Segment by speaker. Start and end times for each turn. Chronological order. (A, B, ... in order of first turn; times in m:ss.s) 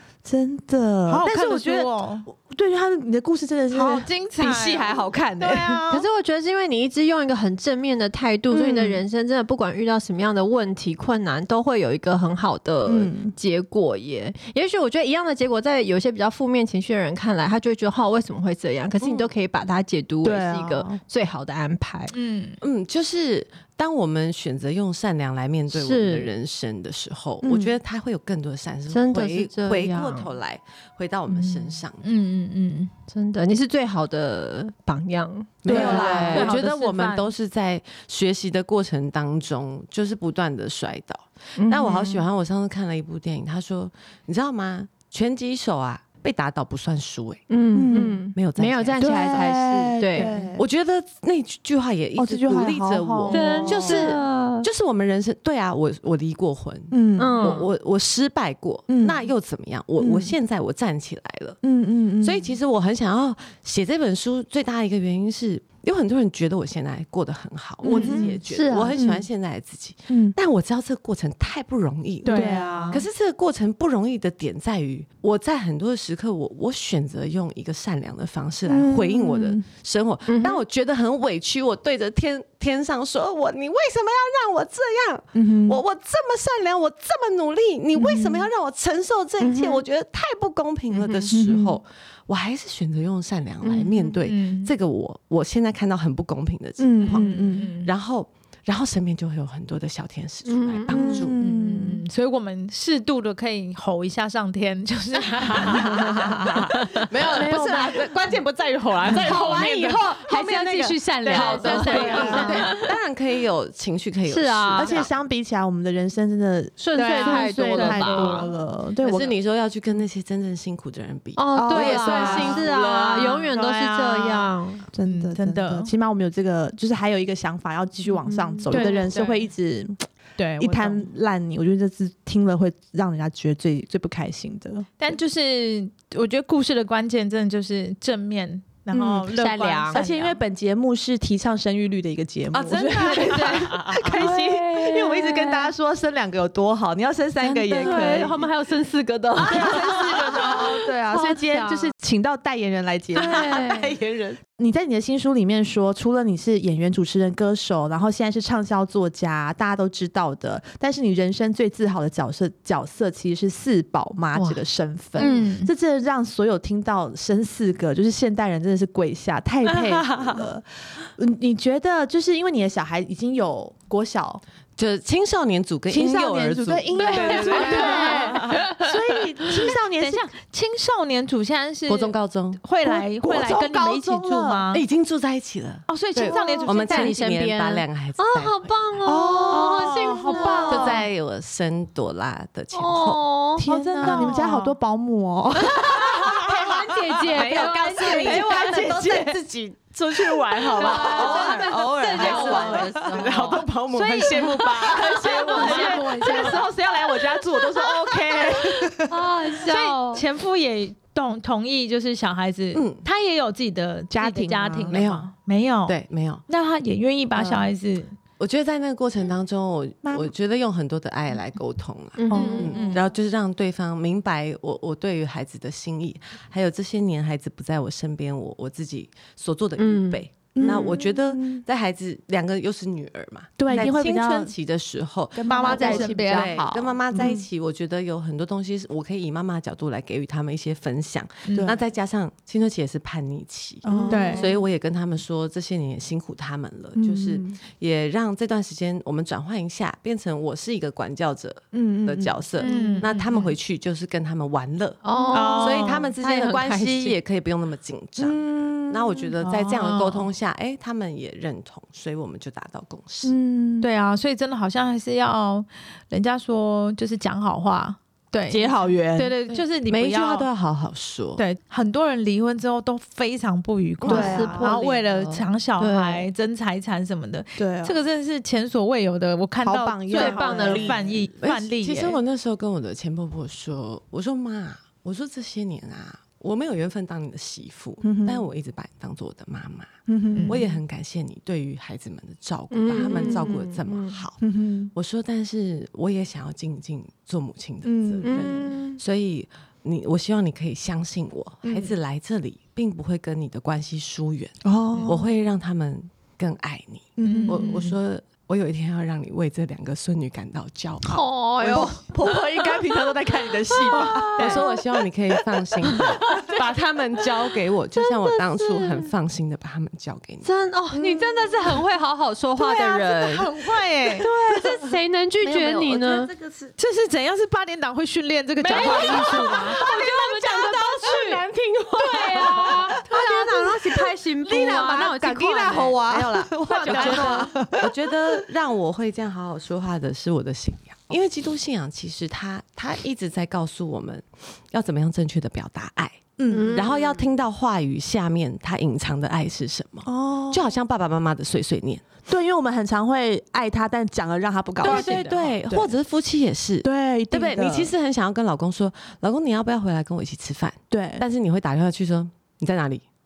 0:00.2-0:04.8 A
0:01.1-0:02.3 B
0:03.7-0:06.0 B
0:04.5-0:05.6 C
0:05.4-0:06.0 A
0:05.9-0:22.1 D
0:08.5-0:09.0 A
0:12.8-0:13.3 A
0:19.0-0:19.3 C
0:20.2-0:21.0 A
0:22.1-0:22.6 B
0:22.6-0:32.0 C
0:25.7-0:26.3 D
0:27.4-0:27.7 A
0:28.9-0:30.3 D
0:31.3-0:32.9 B
0:33.1-0:36.6 D
0:35.6-0:49.5 C
0:35.6-0:36.5 A
0:35.7-0:37.3 B
0:41.6-0:42.2 D
0:47.5-0:50.4 D
0:47.7-0:48.2 A
0:49.0-0:50.6 A
0:50.2-0:50.5 B
0:50.2-1:01.6 C
0:52.2-0:54.2 A
0:53.3-0:54.7 D
0:56.9-0:57.6 A
0:57.2-0:57.7 D
0:58.9-0:59.3 A
1:00.0-1:00.4 A
1:01.6-1:02.6 A
1:02.2-1:41.4 C
1:07.8-1:09.1 D
1:07.9-1:08.3 B
1:07.9-1:08.4 A
1:09.0-1:09.2 A
1:10.1-1:10.4 A
1:12.2-1:13.0 B
1:12.2-1:13.0 A
1:18.7-1:19.6 A
1:20.3-1:20.6 D
1:25.3-1:25.8 A
1:28.0-1:28.5 A
1:29.4-1:29.8 D
1:30.9-1:31.3 D
1:31.3-1:31.8 A
1:33.6-1:34.2 D
1:34.2-1:34.7 B
1:36.8-1:37.7 A
1:37.0-1:37.9 B
1:40.5-1:41.3 D
1:40.9-1:42.0 A
1:41.4-1:46.6 B
1:45.4-1:55.1 C
1:47.0-1:48.0 D
1:47.4-1:47.9 A
1:49.0-1:50.1 D
1:49.2-1:52.7 B
1:50.9-1:52.9 D
1:51.8-1:52.7 A
1:54.3-1:55.0 D
1:54.8-1:59.3 A
1:56.8-1:58.5 D
1:56.9-1:58.5 B
1:59.0-2:03.5 C
2:01.4-2:04.8 D
2:01.6-2:02.6 A
2:01.8-2:04.5 B
2:04.9-2:10.0 A
2:05.0-2:05.9 B
2:08.3-2:09.0 D
2:08.7-2:09.5 B
2:10.4-2:11.0 B
2:10.6-2:14.9 A
2:15.0-2:20.4 B
2:18.9-2:19.3 A
2:19.0-2:20.1 D
2:19.9-2:28.4 A
2:22.5-2:24.3 C
2:23.0-2:25.7 D
2:27.4-2:31.9 D
2:27.8-2:28.2 B
2:29.4-2:50.6 A
2:33.2-2:34.0 D
2:33.2-2:34.4 C
2:44.4-2:44.6 D
2:45.2-2:45.6 D
2:45.2-2:45.7 B
2:50.0-2:50.4 C
2:51.2-2:54.4 A
2:54.8-2:58.6 C
2:55.9-3:00.3 A
2:56.9-2:58.9 D
2:57.0-2:58.4 B
3:00.0-3:04.8 B
3:01.9-3:02.6 C
3:02.8-3:04.7 A
3:04.7-3:08.8 C
3:05.9-3:07.2 B
3:06.3-3:11.0 D
3:09.0-3:11.0 A
3:09.5-3:10.7 B
3:10.4-3:13.2 C
3:12.7-3:14.3 D
3:13.6-3:16.6 A
3:13.7-3:14.7 B
3:14.0-3:14.3 C
3:15.7-3:19.0 D
3:15.9-3:26.0 C
3:18.0-3:19.4 A
3:18.2-3:19.1 B
3:20.1-3:23.5 A
3:20.7-3:23.7 D
3:22.2-3:22.7 B
3:23.9-3:26.6 B
3:24.2-3:26.7 D
3:24.3-3:29.2 A
3:29.0-3:30.2 D
3:29.7-3:36.0 B
3:32.7-3:33.0 C
3:34.1-3:35.0 A
3:34.9-3:35.3 C
3:35.9-3:36.4 C
3:36.5-3:38.2 B
3:37.4-3:37.7 C
3:38.4-4:23.4 C
3:40.0-3:40.3 A
3:42.2-3:43.0 D
3:42.3-3:42.8 A
3:42.3-3:43.1 B
3:49.8-3:50.2 D
3:50.6-3:51.6 A
3:53.6-3:54.5 A
3:53.7-3:53.9 B
3:55.4-3:57.4 A
3:55.5-3:57.3 B
3:55.6-3:56.6 D
4:01.5-4:01.8 B
4:01.5-4:01.8 A
4:03.8-4:04.5 A
4:03.9-4:04.6 D
4:04.1-4:04.5 B
4:07.0-4:07.6 A
4:11.7-4:12.4 A
4:12.6-4:13.5 B
4:12.6-4:13.1 D
4:15.0-4:17.2 D
4:15.3-4:15.6 A
4:15.3-4:16.1 B
4:18.2-4:19.8 A
4:19.9-4:20.1 B
4:23.2-4:23.9 A
4:23.8-4:30.5 B
4:28.5-4:29.4 A
4:29.5-4:31.4 C
4:31.4-4:42.2 B
4:34.0-4:34.7 A
4:34.1-4:36.3 D
4:37.6-4:38.0 A
4:39.6-4:41.0 A
4:40.1-4:41.2 D
4:40.6-4:49.9 C
4:48.0-4:48.4 A
4:50.1-4:50.6 A
4:50.3-4:50.7 B
4:50.5-4:54.4 C
4:52.7-4:54.2 D
4:53.0-4:53.5 A
4:54.4-4:54.9 A
4:55.0-5:11.9 C
4:57.8-4:58.7 A
4:58.2-4:59.0 D
5:01.6-5:02.0 A
5:04.6-5:05.2 A
5:07.2-5:07.9 A
5:07.2-5:07.9 B
5:11.0-5:12.9 D
5:11.6-5:14.7 A
5:13.7-5:14.6 D
5:13.9-5:20.5 C
5:15.8-5:16.4 A
5:15.9-5:16.6 D
5:18.0-5:19.1 D
5:20.4-5:23.5 D
5:20.9-5:21.6 A
5:22.6-5:24.6 A
5:23.1-5:24.3 B
5:24.2-5:26.3 D
5:25.6-5:26.2 C
5:25.8-5:26.7 A
5:26.8-5:31.0 B
5:28.6-5:31.4 D
5:28.7-5:33.0 C
5:28.7-5:29.2 A
5:29.8-5:30.0 A
5:32.0-5:37.4 D
5:32.3-5:37.9 A
5:36.1-5:52.0 C
5:36.6-5:37.7 B
5:46.4-5:46.9 A
5:46.5-5:47.2 D
5:50.1-5:50.7 A
5:52.3-5:55.9 A
5:54.8-6:03.0 C
5:54.8-5:55.5 D
5:56.8-5:57.9 A
6:00.9-6:01.2 A